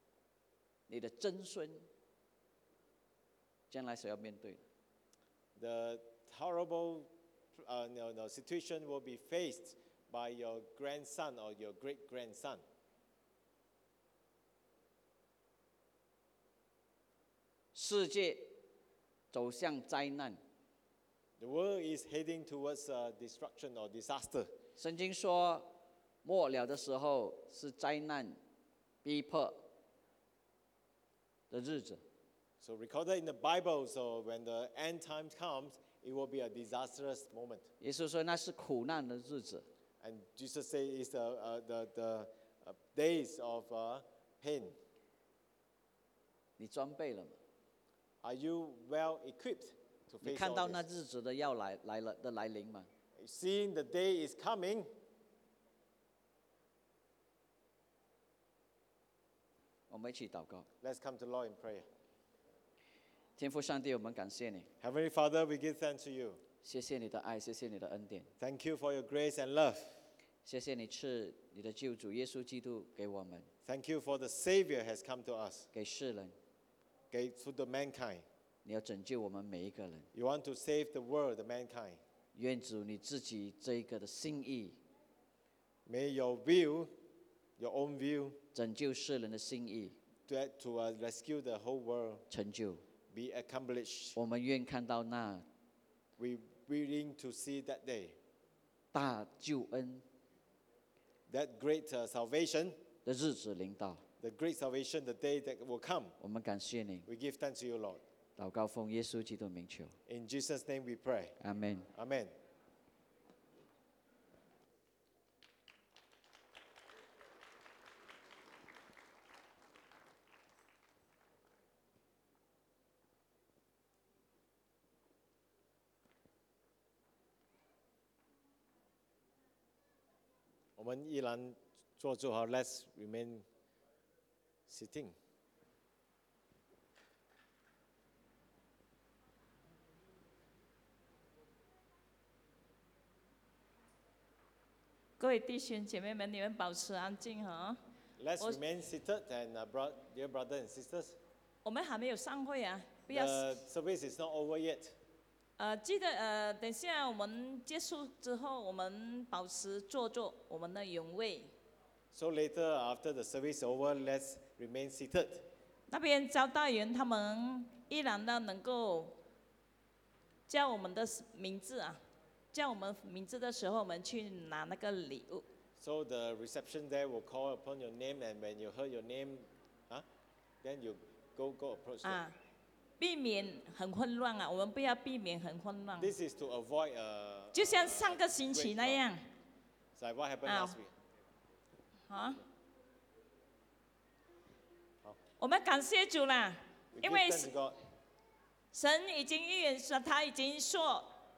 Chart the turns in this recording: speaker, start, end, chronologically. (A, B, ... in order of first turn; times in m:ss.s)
0:00.9-0:01.8 A
0:03.7-0:04.6 A
0:05.6-0:12.6 B
0:17.7-0:18.6 A
0:19.3-0:20.4 A
0:21.4-0:24.5 B
0:24.8-0:25.7 A
0:26.2-0:28.4 A
0:29.0-0:29.6 A
0:31.5-0:32.0 A
0:32.6-0:37.7 B
0:37.8-0:39.6 A
0:40.0-0:44.7 B
0:46.6-0:47.4 A
0:48.2-0:50.8 B
0:50.2-0:52.9 A
0:53.2-0:54.9 B
0:59.9-1:00.6 A
1:00.8-1:01.8 B
1:03.4-1:04.7 A
1:04.8-1:06.4 B
1:06.6-1:08.3 A
1:08.4-1:10.0 B
1:10.4-1:13.5 A
1:13.6-1:15.7 B
1:15.7-1:16.3 A
1:17.1-1:18.2 B
1:18.6-1:20.1 A
1:20.1-1:22.0 B
1:22.3-1:24.8 A
1:25.9-1:26.9 B
1:27.6-1:28.4 B
1:28.5-1:30.0 A
1:30.3-1:32.2 B
1:32.3-1:32.8 A
1:33.1-1:34.2 B
1:34.2-1:35.4 A
1:36.2-1:38.2 B
1:38.9-1:40.0 A
1:41.3-1:42.8 B
1:43.0-1:44.0 A
1:44.2-1:46.1 B
1:46.2-1:47.0 A
1:47.0-1:48.0 B
1:48.4-1:49.9 A
1:50.1-1:51.4 B
1:51.4-1:51.9 A
1:51.9-1:52.3 B
2:10.8-2:13.4 B
2:14.7-2:15.1 B
2:25.2-2:27.8 C
2:28.2-2:31.2 B
2:31.6-2:33.4 C
2:33.1-2:34.9 B
2:35.6-2:41.5 C
2:42.1-2:45.4 B
2:45.9-2:49.2 C
2:50.5-2:52.0 C
2:52.5-2:55.4 C
2:55.8-3:00.0 B
3:00.6-3:02.2 B
3:02.0-3:02.3 C
3:03.0-3:06.1 C
3:06.0-3:09.0 B
3:07.5-3:09.2 C
3:10.0-3:10.9 B
3:10.4-3:10.8 C
3:12.1-3:12.4 C
3:15.4-3:17.5 C
3:16.9-3:17.8 B
3:18.7-3:21.1 C